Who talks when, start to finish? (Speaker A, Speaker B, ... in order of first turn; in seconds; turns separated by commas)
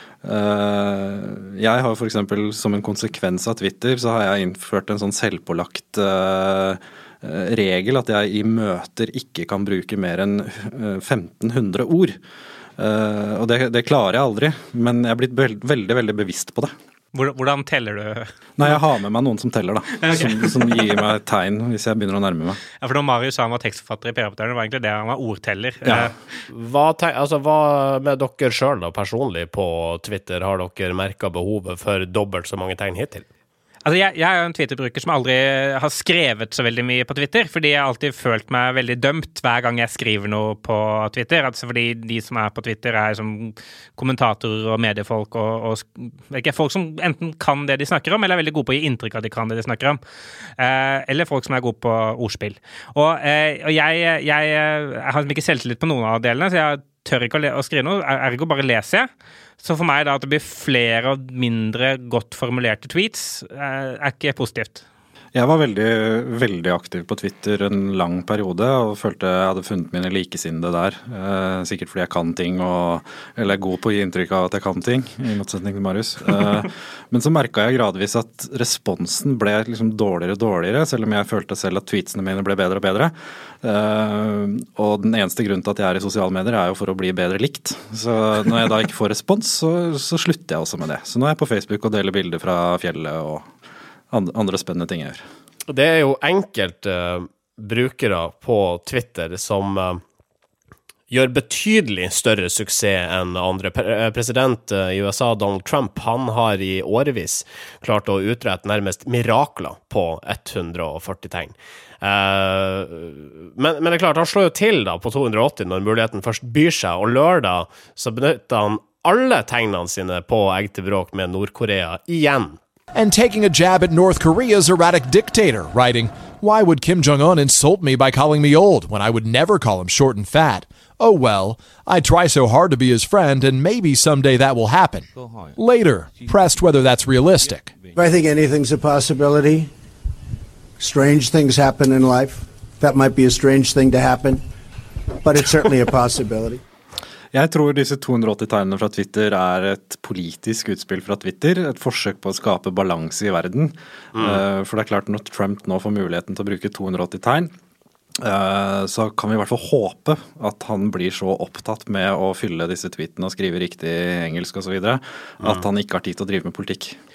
Speaker A: 0.2-12.2, Speaker A: 12.8-16.7, Speaker B: 17.1-18.7, Speaker A: 18.6-22.6, Speaker B: 20.0-21.1, Speaker B: 22.8-26.1, Speaker A: 25.8-26.1, Speaker C: 26.5-33.2, Speaker B: 33.8-50.0, Speaker B: 50.6-59.1, Speaker B: 59.6-64.8, Speaker A: 65.3-93.5, Speaker A: 94.1-95.2, Speaker C: 95.7-100.0, Speaker C: 101.1-122.6, Speaker D: 122.9-137.8, Speaker E: 137.9-139.7, Speaker E: 140.8-144.4, Speaker E: 145.2-146.6, Speaker A: 147.3-157.5, Speaker C: 154.2-154.4, Speaker A: 158.2-167.0